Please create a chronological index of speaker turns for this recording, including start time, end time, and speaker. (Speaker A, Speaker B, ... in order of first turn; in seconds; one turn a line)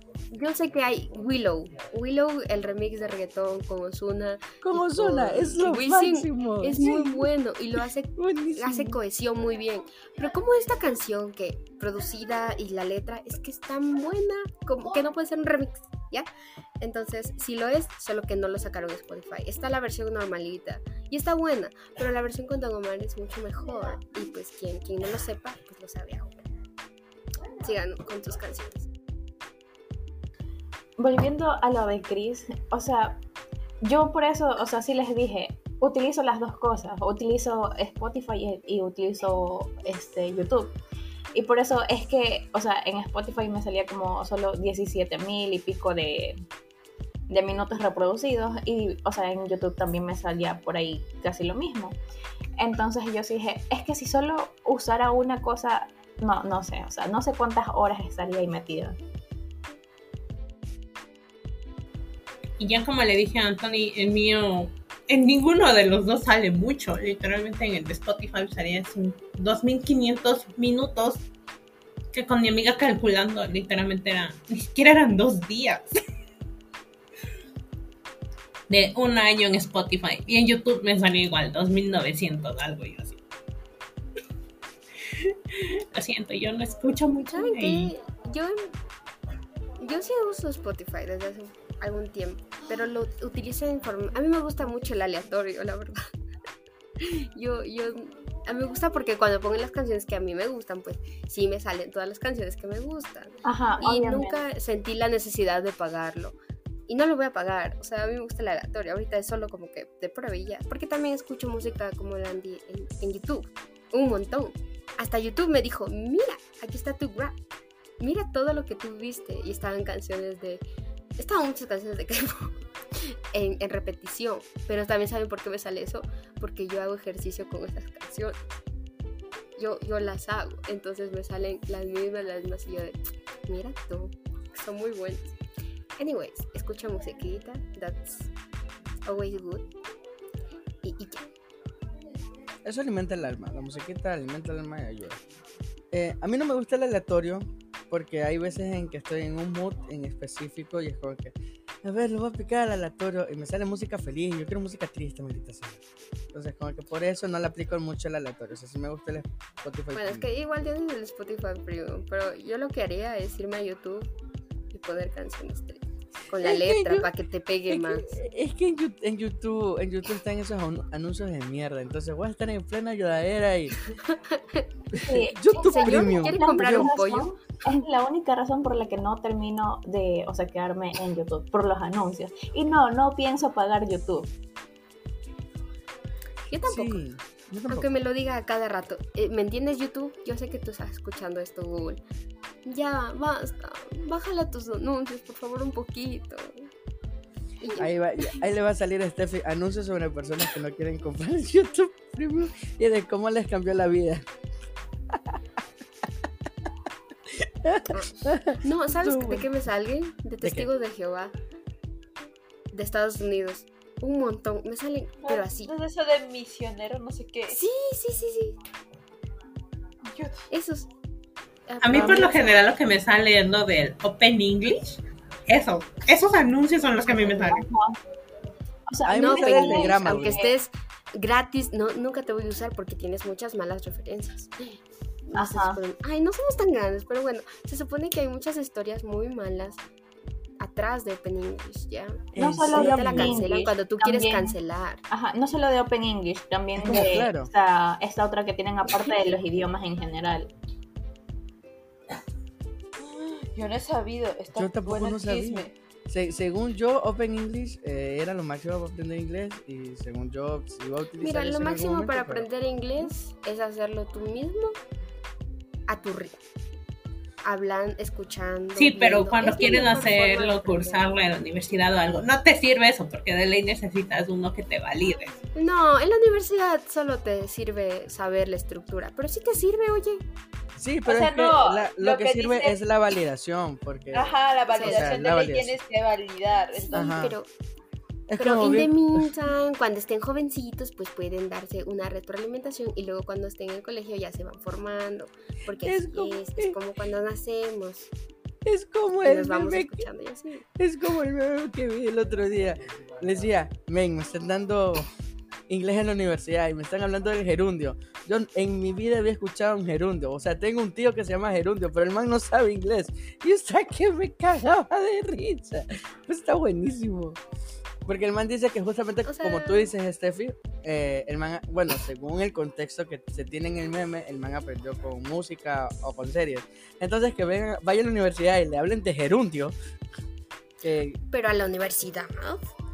Speaker A: 0.3-16.3
Speaker B: 4.6-7.3
Speaker B: 8.2-9.0
Speaker A: 16.8-26.4
Speaker A: 27.6-28.9
Speaker C: 31.0-33.2
Speaker C: 33.8-40.8
Speaker C: 41.4-46.4
Speaker C: 47.3-52.0
Speaker C: 52.6-59.0
Speaker D: 62.6-71.2
Speaker D: 72.1-76.0
Speaker D: 78.7-83.2
Speaker D: 85.5-87.9
Speaker A: 87.3-88.7
Speaker A: 89.8-96.0
Speaker A: 97.0-106.4
Speaker C: 103.4-104.4
Speaker A: 106.9-117.4
Speaker A: 118.0-120.6
Speaker A: 121.2-128.5
Speaker A: 129.6-135.3
Speaker A: 136.0-138.3
Speaker A: 139.1-139.7
Speaker A: 140.8-141.2
Speaker B: 142.7-145.2
Speaker B: 145.9-155.8
Speaker B: 156.3-160.3
Speaker A: 159.9-164.1
Speaker A: 164.7-168.2
Speaker B: 166.4-167.1
Speaker B: 167.7-173.8
Speaker B: 174.9-176.9
Speaker C: 175.0-184.3
Speaker A: 175.5-177.4
Speaker A: 186.5-187.0
Speaker B: 186.7-187.9
Speaker A: 187.7-192.0
Speaker A: 192.7-196.7
Speaker A: 197.6-198.4
Speaker B: 197.8-204.3
Speaker B: 207.4-209.5
Speaker A: 207.9-211.3
Speaker B: 210.4-210.7
Speaker A: 212.7-215.7
Speaker E: 215.2-217.6
Speaker A: 217.5-218.6
Speaker E: 220.1-220.5
Speaker A: 220.5-220.9
Speaker A: 221.7-222.7
Speaker D: 221.8-227.6
Speaker B: 221.9-222.2
Speaker C: 227.1-228.0
Speaker A: 227.3-227.6
Speaker C: 228.9-230.5
Speaker B: 229.1-230.4
Speaker A: 229.1-239.8
Speaker C: 235.3-235.8
Speaker A: 240.6-245.0
Speaker B: 242.3-243.4
Speaker C: 242.4-244.6
Speaker C: 245.1-250.5
Speaker B: 246.8-247.5
Speaker E: 253.0-255.7
Speaker B: 254.5-262.5
Speaker A: 261.2-264.8
Speaker A: 265.9-266.4
Speaker A: 267.4-271.0
Speaker D: 268.8-275.4
Speaker A: 275.6-280.2
Speaker B: 280.8-285.8
Speaker E: 281.1-282.8
Speaker E: 284.1-287.2
Speaker A: 284.7-285.2
Speaker A: 286.7-287.5
Speaker B: 286.9-287.4
Speaker B: 288.3-289.3
Speaker A: 288.4-298.1
Speaker B: 295.8-296.8
Speaker B: 298.7-300.1
Speaker A: 299.2-300.7
Speaker B: 300.8-305.1
Speaker B: 305.7-317.4
Speaker B: 318.1-329.8
Speaker A: 319.3-319.9
Speaker B: 330.8-331.2
Speaker A: 331.3-332.7